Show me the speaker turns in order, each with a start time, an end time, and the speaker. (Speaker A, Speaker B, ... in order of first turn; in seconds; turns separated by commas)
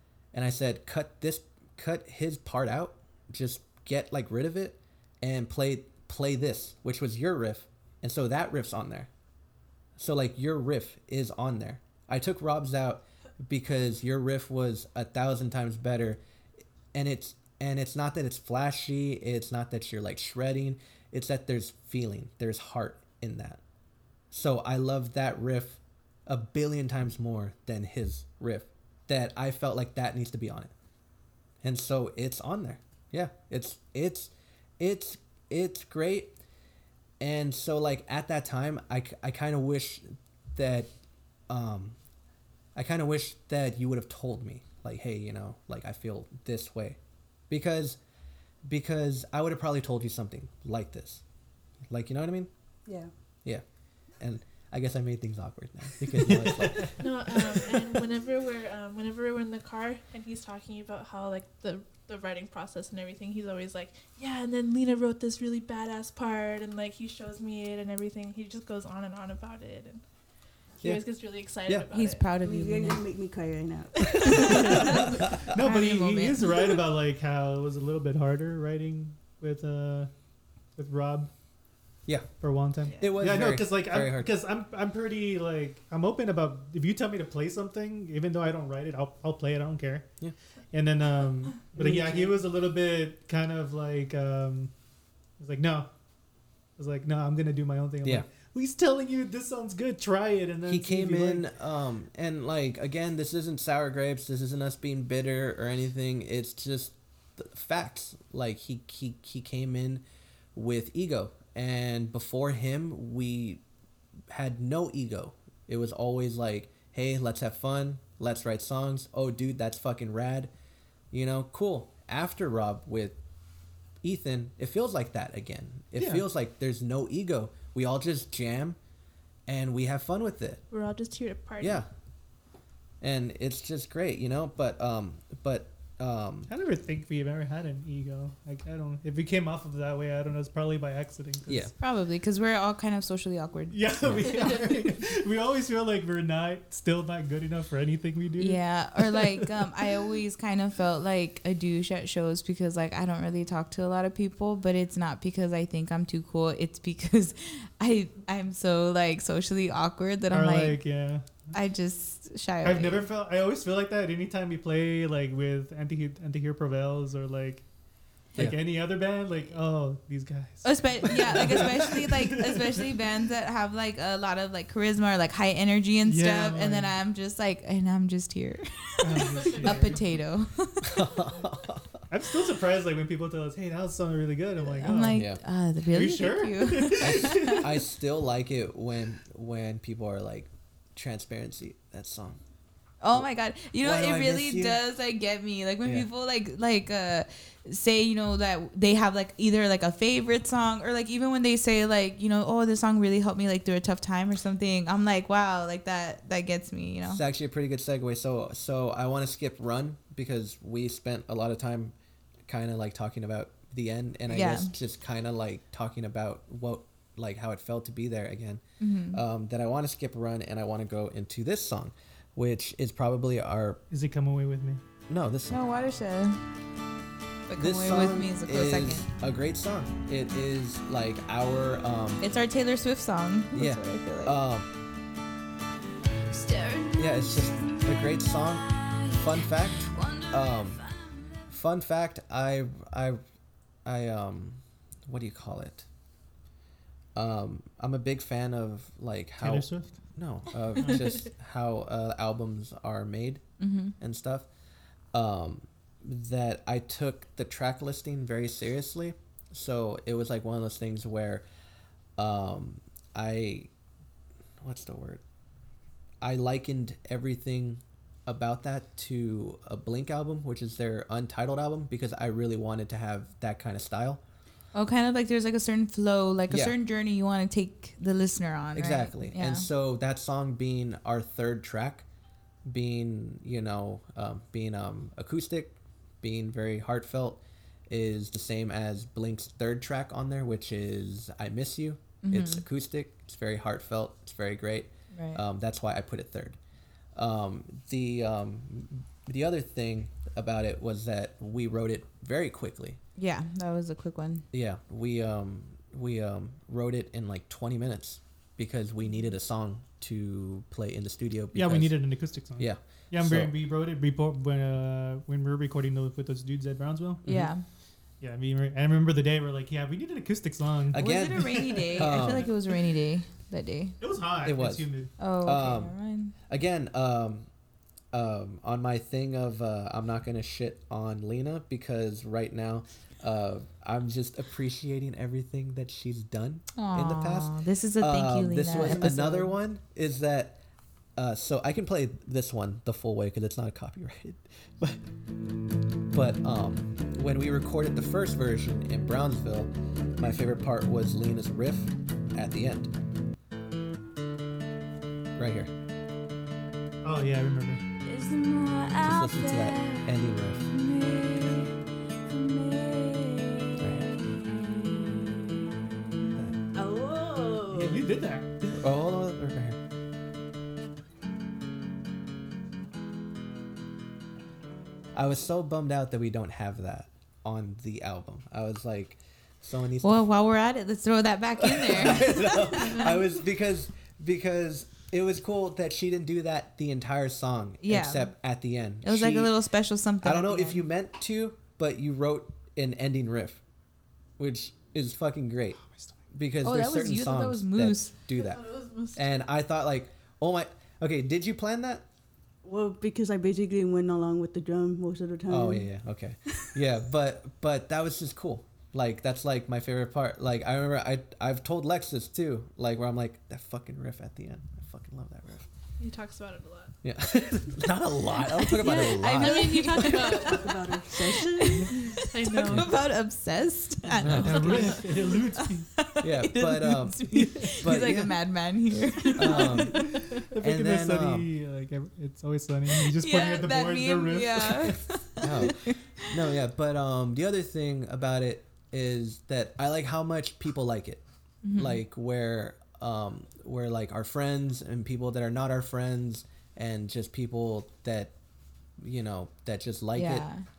Speaker A: 0.3-9.1, Speaker A: 10.0-16.2, Speaker A: 16.9-23.6, Speaker A: 24.3-30.7, Speaker A: 31.6-36.4, Speaker A: 37.2-40.9, Speaker A: 41.5-42.0, Speaker A: 42.7-47.0, Speaker A: 47.5-48.0, Speaker A: 48.6-51.2, Speaker A: 51.9-52.5, Speaker A: 54.2-57.0, Speaker B: 56.2-57.0, Speaker C: 57.0-70.0, Speaker C: 70.8-72.2, Speaker A: 71.7-71.9, Speaker D: 71.9-73.0, Speaker E: 72.4-75.0, Speaker C: 74.1-74.4, Speaker B: 74.2-80.1, Speaker D: 74.3-75.0, Speaker A: 74.8-75.5, Speaker D: 75.5-76.5, Speaker B: 80.7-81.3, Speaker A: 82.0-82.3, Speaker B: 82.4-90.1, Speaker A: 83.0-84.3, Speaker B: 90.7-94.7, Speaker E: 91.8-92.4, Speaker B: 95.4-95.9, Speaker B: 96.8-101.4, Speaker A: 100.7-110.0, Speaker A: 110.5-113.6, Speaker A: 114.3-120.5, Speaker A: 121.1-123.2, Speaker A: 124.0-128.8, Speaker B: 126.0-126.2, Speaker A: 129.5-130.6, Speaker C: 130.7-131.8, Speaker A: 131.6-131.9, Speaker A: 133.0-136.5, Speaker B: 136.5-141.7, Speaker A: 141.5-141.7, Speaker D: 141.8-144.4, Speaker B: 143.7-149.7, Speaker A: 144.0-144.5, Speaker D: 148.4-160.8, Speaker B: 160.3-161.2, Speaker D: 161.5-163.1, Speaker B: 162.6-167.7, Speaker B: 168.3-172.9, Speaker D: 170.6-181.1, Speaker B: 176.0-176.9, Speaker B: 179.0-180.0, Speaker A: 180.8-182.0, Speaker B: 182.1-185.2, Speaker D: 184.7-187.6, Speaker A: 185.1-185.4, Speaker B: 185.9-187.8, Speaker A: 187.0-192.4, Speaker D: 193.0-207.2, Speaker A: 193.8-194.8, Speaker A: 207.1-211.9, Speaker A: 212.4-223.8, Speaker D: 214.3-214.7, Speaker D: 218.8-219.2, Speaker B: 223.9-224.8, Speaker A: 225.1-225.7, Speaker D: 225.5-226.4, Speaker D: 227.5-229.1, Speaker A: 227.5-232.2, Speaker D: 232.2-234.4, Speaker A: 233.5-234.7, Speaker D: 236.3-237.0, Speaker A: 236.9-240.9, Speaker D: 240.0-240.3, Speaker A: 241.4-243.2, Speaker A: 243.8-245.9, Speaker A: 247.1-253.4, Speaker B: 249.4-250.0, Speaker B: 250.8-251.1, Speaker D: 253.6-253.9, Speaker A: 254.0-254.5, Speaker A: 255.1-261.4, Speaker A: 262.2-263.7, Speaker A: 264.6-265.2, Speaker A: 266.2-274.2, Speaker D: 274.7-279.7, Speaker A: 276.5-276.8, Speaker A: 278.8-282.0, Speaker A: 282.6-296.6, Speaker D: 292.2-292.6, Speaker D: 295.1-295.4, Speaker A: 297.1-303.0, Speaker D: 303.2-304.4, Speaker A: 304.5-312.0, Speaker B: 311.5-317.2, Speaker A: 312.6-313.5, Speaker A: 317.2-317.5, Speaker D: 317.3-317.6, Speaker B: 318.2-322.5, Speaker A: 320.9-322.5, Speaker D: 320.9-323.9, Speaker B: 324.0-325.1, Speaker A: 324.4-324.9, Speaker D: 325.2-326.3, Speaker A: 325.4-325.9, Speaker A: 326.5-327.5, Speaker A: 328.1-340.6, Speaker D: 336.8-339.5, Speaker E: 338.8-339.1, Speaker A: 341.1-345.0, Speaker A: 346.1-352.9, Speaker A: 355.4-355.7, Speaker B: 357.0-357.8, Speaker D: 358.0-360.1, Speaker A: 359.0-360.7, Speaker D: 360.7-361.7, Speaker D: 362.3-365.3, Speaker A: 363.8-364.2, Speaker A: 366.3-366.6, Speaker D: 366.8-367.6, Speaker E: 366.8-368.0, Speaker B: 367.7-368.8, Speaker A: 368.7-369.8, Speaker A: 375.1-380.2, Speaker D: 380.0-383.2, Speaker A: 381.6-389.5, Speaker D: 387.8-388.3, Speaker D: 389.0-390.8, Speaker A: 390.2-393.6, Speaker A: 394.4-395.8, Speaker B: 395.8-396.1, Speaker A: 396.3-402.0, Speaker D: 396.6-398.1, Speaker C: 398.3-399.2, Speaker E: 402.6-405.9, Speaker A: 405.5-415.7, Speaker C: 416.0-416.9, Speaker A: 417.0-420.3, Speaker D: 418.5-430.0, Speaker C: 418.8-420.9, Speaker E: 420.3-422.0, Speaker C: 422.2-423.0, Speaker A: 422.6-422.9, Speaker B: 424.1-425.9, Speaker A: 424.2-424.7, Speaker C: 424.3-425.3, Speaker A: 426.2-428.3, Speaker A: 429.4-431.5, Speaker C: 429.5-430.4, Speaker B: 430.1-435.3, Speaker D: 433.1-436.3, Speaker A: 435.4-441.2, Speaker D: 441.6-442.0, Speaker A: 441.7-448.3, Speaker A: 449.0-450.5, Speaker D: 450.1-450.6